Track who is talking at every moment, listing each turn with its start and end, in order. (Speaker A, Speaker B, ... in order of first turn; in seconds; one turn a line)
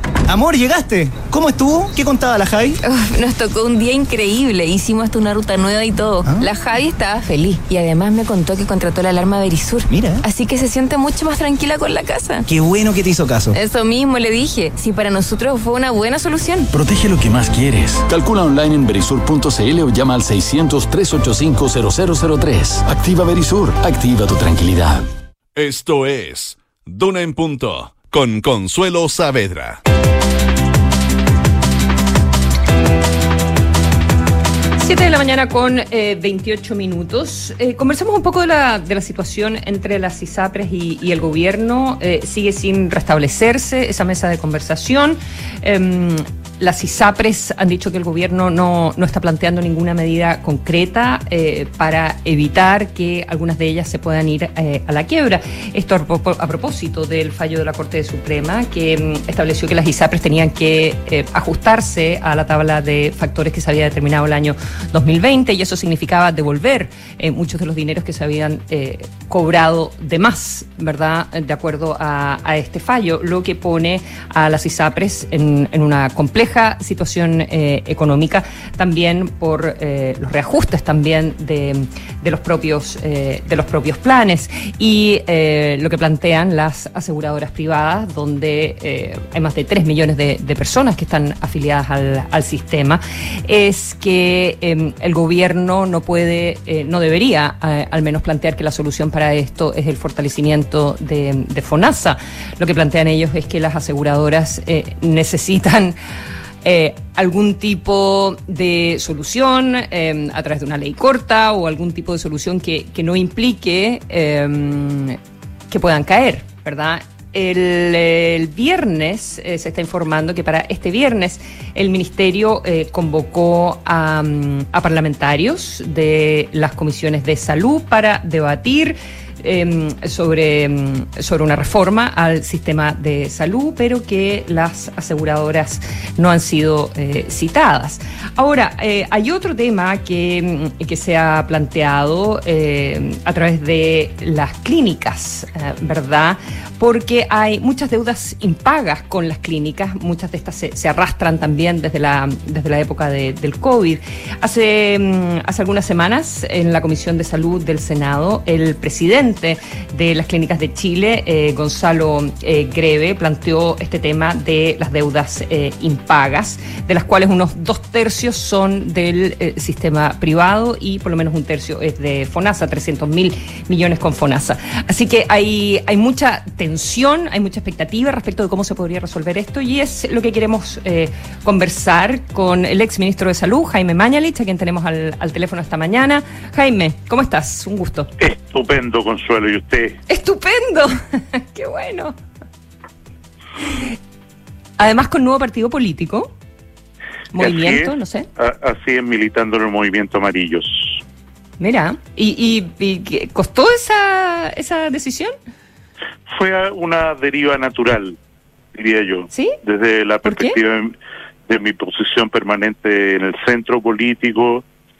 Speaker A: 0.3-2.8
Speaker B: 2.8-12.4
Speaker A: 9.9-10.2
Speaker A: 12.4-13.6
Speaker B: 13.5-16.7
Speaker C: 16.7-25.1
Speaker D: 25.5-29.8
Speaker E: 34.8-106.0
Speaker E: 106.6-115.2
Speaker E: 115.7-188.1
Speaker F: 188.2-190.0
Speaker E: 190.1-192.1
Speaker E: 194.8-196.3
Speaker E: 197.3-198.3
Speaker F: 197.4-201.0
Speaker E: 201.6-205.3
Speaker F: 206.3-208.2
Speaker F: 208.7-210.9
Speaker E: 209.3-209.6
Speaker E: 210.2-210.6
Speaker F: 211.5-214.6